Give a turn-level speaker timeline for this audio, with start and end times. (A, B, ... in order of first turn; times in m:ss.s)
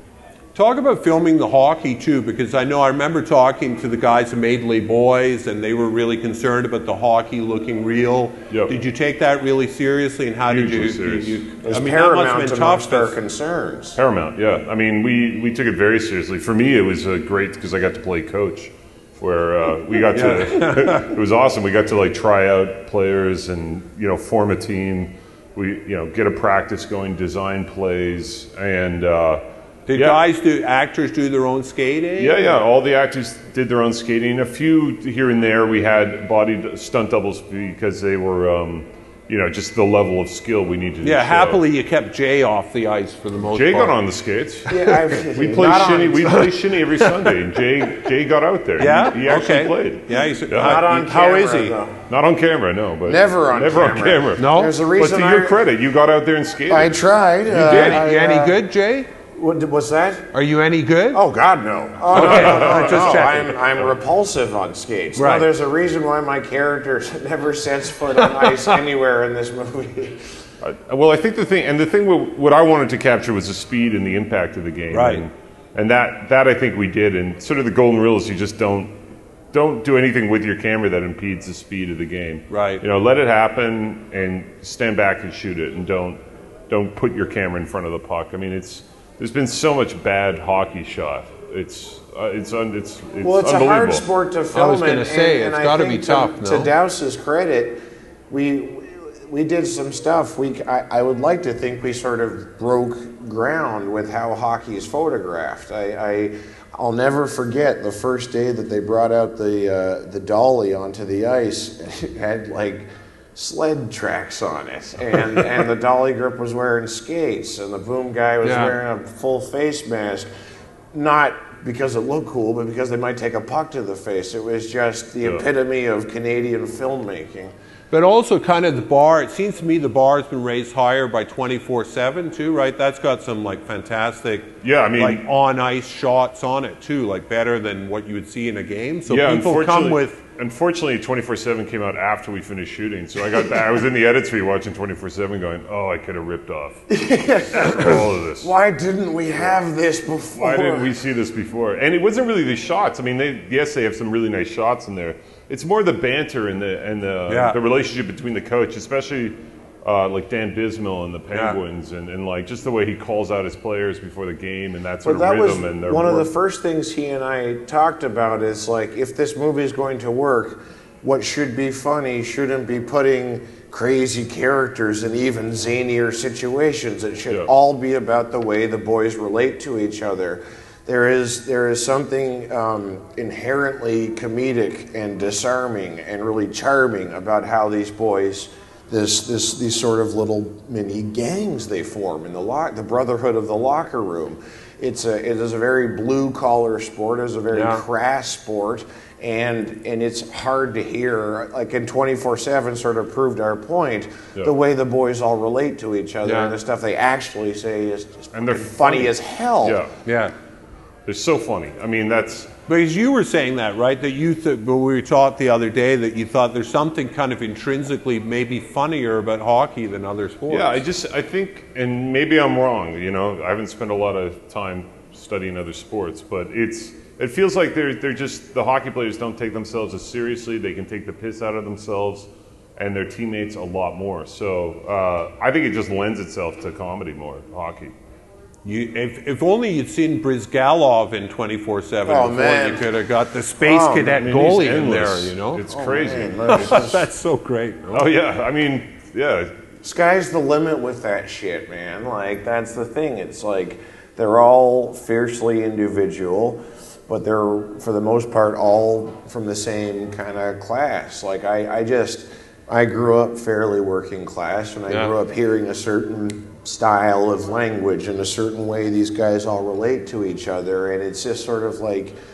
0:00.6-0:13.2 A
0:10.5-0:11.4 B
0:11.6-0:14.0 C
0:14.0-0:30.2 B
0:20.1-0:21.1 A
0:29.9-0:32.6 A
0:32.2-0:41.6 B
0:41.0-0:44.0 A
0:43.5-0:50.8 B
0:44.7-0:46.4 C
0:47.0-0:47.3 A
0:48.8-0:51.8 A
0:50.6-0:52.0 C
0:52.1-0:58.0 B
0:53.0-0:55.6 C
0:54.4-0:54.7 A
0:56.7-0:58.6 C
0:57.5-0:59.1 A
0:59.3-1:00.3 C
1:00.3-1:01.2 A
1:01.1-1:10.4 C
1:02.1-1:03.6 A
1:02.1-1:03.3 B
1:05.2-1:05.5 A
1:10.6-1:19.0 B
1:14.9-1:15.2 A
1:19.5-1:26.2 B
1:22.5-1:22.8 A
1:26.7-1:34.0 B
1:33.2-2:00.3 C
1:34.5-1:36.7 A
1:58.4-1:58.8 A
2:00.9-2:07.5 C
2:07.9-2:20.2 A
2:14.6-2:15.3 B
2:19.1-2:27.0 B
2:26.9-2:30.9 C
2:27.5-2:28.5 B
2:30.4-2:46.3 B
2:37.3-2:37.6 A
2:41.3-2:41.6 A
2:45.0-3:29.8 C
3:17.5-3:17.8 A
3:26.2-3:26.6 A
3:28.3-3:29.9 B
3:30.0-3:30.3 A
3:31.1-3:32.5 B
3:32.7-3:40.8 A
3:40.5-3:57.9 B
3:58.6-4:05.6 A
4:02.1-4:02.9 C
4:03.6-4:04.2 C
4:04.1-4:06.9 B
4:05.7-4:07.1 C
4:06.5-4:08.1 A
4:07.9-4:09.5 B
4:09.8-4:32.2 C